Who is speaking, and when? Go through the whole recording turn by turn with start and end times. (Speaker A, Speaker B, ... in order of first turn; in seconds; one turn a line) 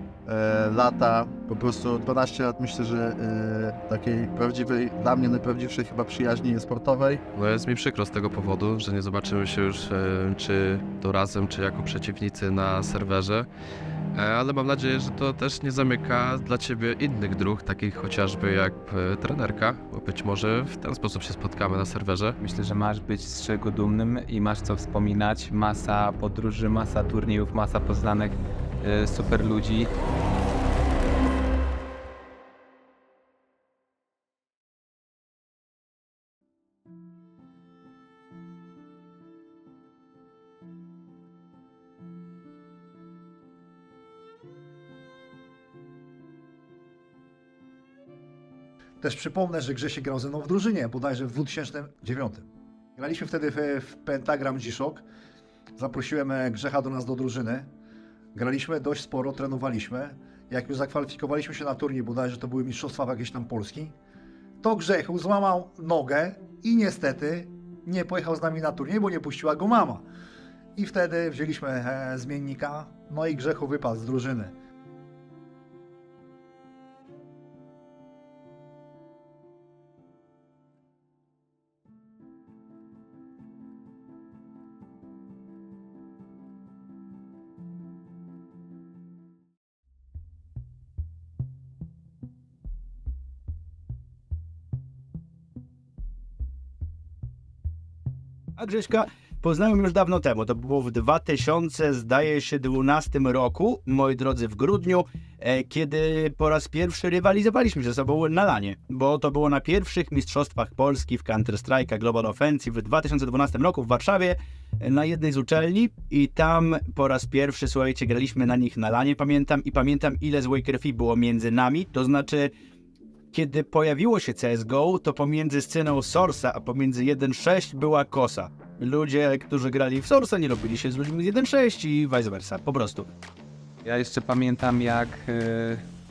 Speaker A: 0.2-7.2
Speaker B: 7.3-13.5
Speaker B: 14.1-22.3
Speaker C: 22.3-29.9
Speaker D: 49.0-52.4
Speaker D: 53.0-55.0
Speaker D: 55.8-57.7
Speaker D: 58.3-64.0
Speaker D: 64.6-70.0
Speaker D: 70.8-74.5
Speaker E: 98.6-122.5
Speaker E: 123.3-133.1
Speaker C: 133.8-135.8